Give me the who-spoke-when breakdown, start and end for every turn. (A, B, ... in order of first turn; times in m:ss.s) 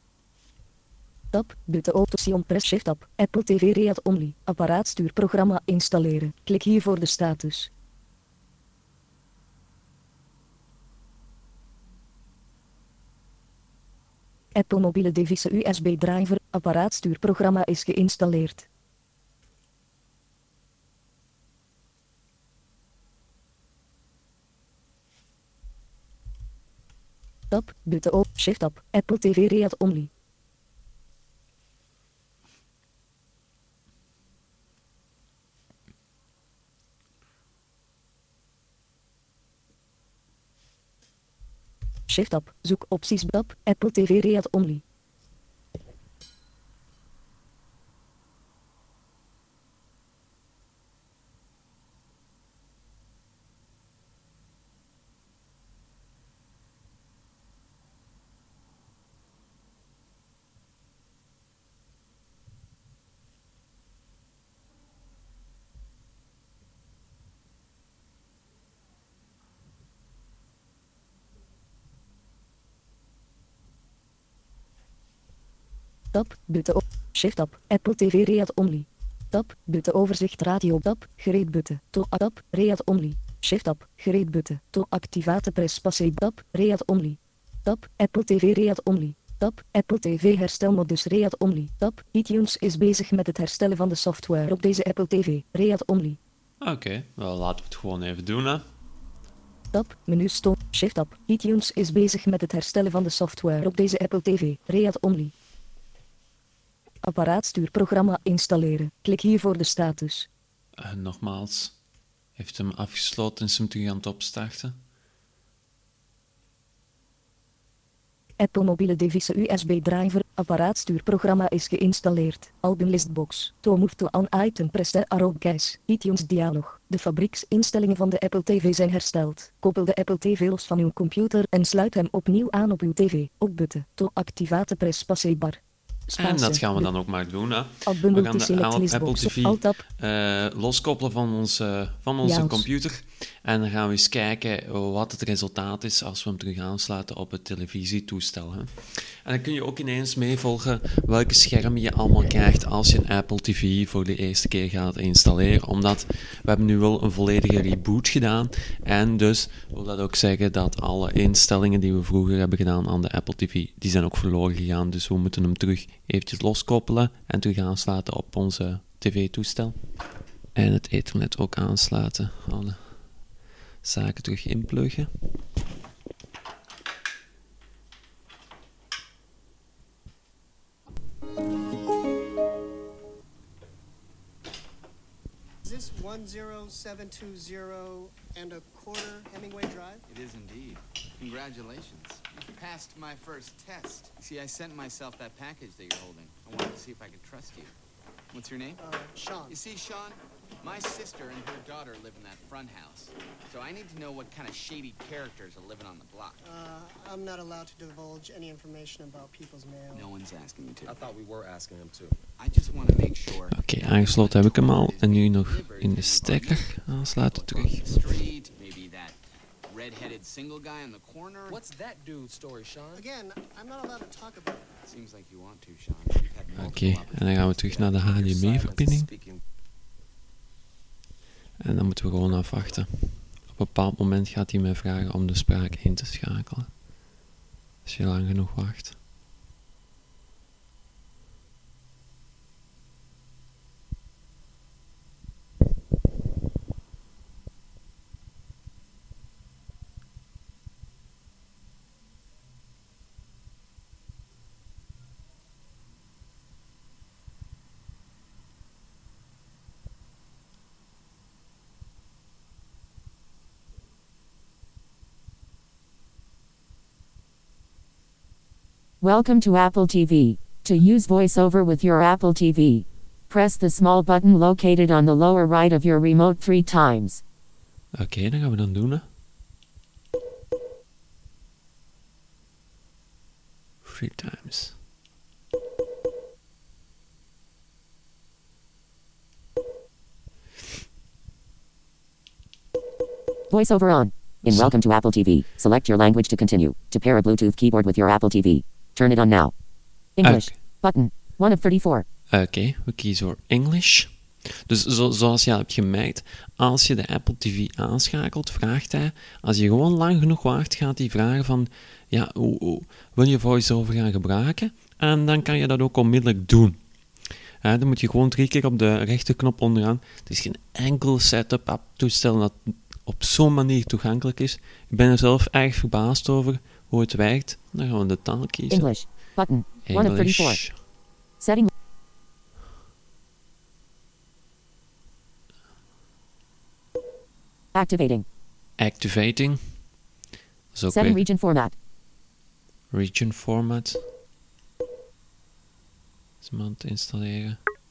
0:01.3-0:07.7 A
0:14.5-0:18.7 A
0:27.5-0:30.1 A
0:42.1-0:44.8 A
1:16.1-1:36.2 A
1:36.6-1:38.7 B
1:39.7-1:45.3 A
1:47.0-1:50.3 A
1:50.8-1:51.8 B
1:52.4-1:54.8 B
1:58.4-2:16.9 A
2:16.2-2:55.1 B
2:17.8-2:19.8 A
2:22.2-2:22.7 A
3:05.6-3:10.0 C
3:10.1-3:17.7 D
3:18.3-3:18.8 D
3:18.8-3:19.6 C
3:19.4-3:26.4 D
3:26.4-3:30.1 C
3:29.9-3:31.0 D
3:30.8-3:32.2 E
3:32.4-3:41.6 D
3:33.5-3:37.9 B
3:41.5-3:43.0 E
3:42.9-3:44.7 C
3:44.8-3:48.0 D
3:46.5-3:47.0 E
3:46.5-3:49.1 B
3:47.6-3:49.4 E
3:51.6-3:56.8 B
3:57.8-3:59.0 B
4:29.0-4:37.2 F
4:37.9-4:39.1 B
4:43.8-4:44.8 B
4:53.5-4:59.5 F
4:54.4-4:54.8 B
5:00.1-5:02.0 F
5:00.2-5:00.6 B
5:02.3-5:29.3 B
5:28.7-5:31.7 F
5:29.8-5:30.8 B
5:37.7-5:38.2 F
5:38.8-5:40.0 B
5:40.7-5:41.3 B
5:40.9-5:41.8 F
5:42.9-5:44.0 B
5:46.4-5:47.6 B